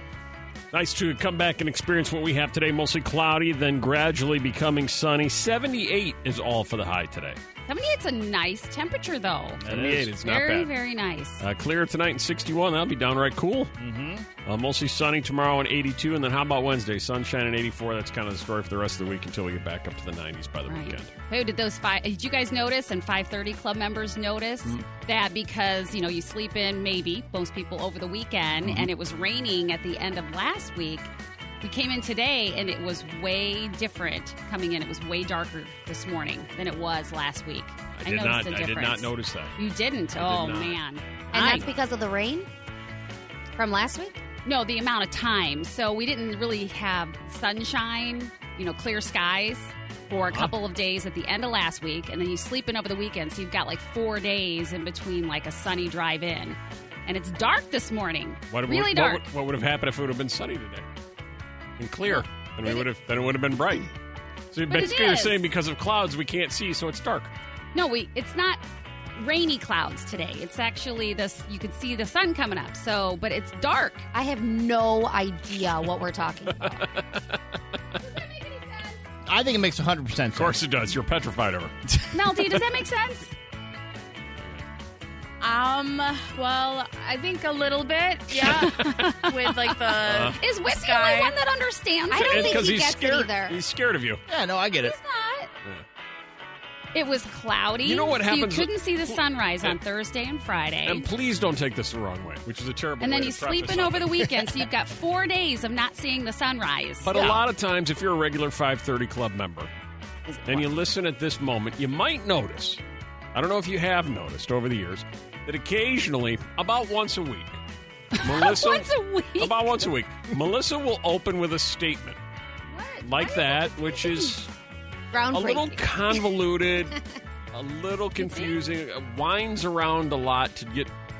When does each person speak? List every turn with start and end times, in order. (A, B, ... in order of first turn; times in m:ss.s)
0:00.7-0:07.4 A
0:07.7-0:11.4 B
0:09.6-0:10.1 C
0:09.6-0:10.7 A
0:11.4-0:13.7 A
0:13.8-0:14.3 C
0:14.4-0:21.1 A
0:20.7-0:31.1 B
0:31.6-0:41.7 B
0:38.0-0:39.5 A
0:40.2-0:40.8 A
0:41.3-0:42.5 D
0:41.4-0:41.7 A
0:43.5-0:44.2 D
0:44.4-0:59.2 B
0:58.5-1:00.8 A
1:01.8-1:03.9 A
1:02.1-1:02.8 B
1:04.5-1:07.3 A
1:04.7-1:05.4 B
1:07.7-1:08.6 B
1:09.2-1:14.0 B
1:14.1-1:16.9 D
1:16.5-1:17.4 A
1:18.2-1:19.0 E
1:19.3-1:20.6 C
1:20.4-1:21.7 A
1:22.1-1:23.3 B
1:25.4-1:31.4 E
1:28.3-1:29.0 A
1:28.8-1:29.5 B
1:30.0-1:30.4 A
1:30.4-1:32.6 B
1:32.1-1:33.6 D
1:32.2-1:34.2 A
1:34.3-1:35.0 C
1:34.8-1:35.5 B
1:36.9-1:41.1 B
1:37.8-1:39.8 A
1:40.8-1:44.4 A
1:43.0-1:47.4 B
1:47.0-1:49.7 A
1:50.3-1:50.7 B
1:50.4-1:52.8 A
1:53.3-1:57.6 A
1:58.1-1:59.6 B
1:58.2-2:02.2 A
2:02.7-2:04.3 B
2:03.0-2:04.5 A
2:05.1-2:06.2 D
2:05.3-2:07.0 A
2:07.5-2:10.9 A
2:08.2-2:08.6 B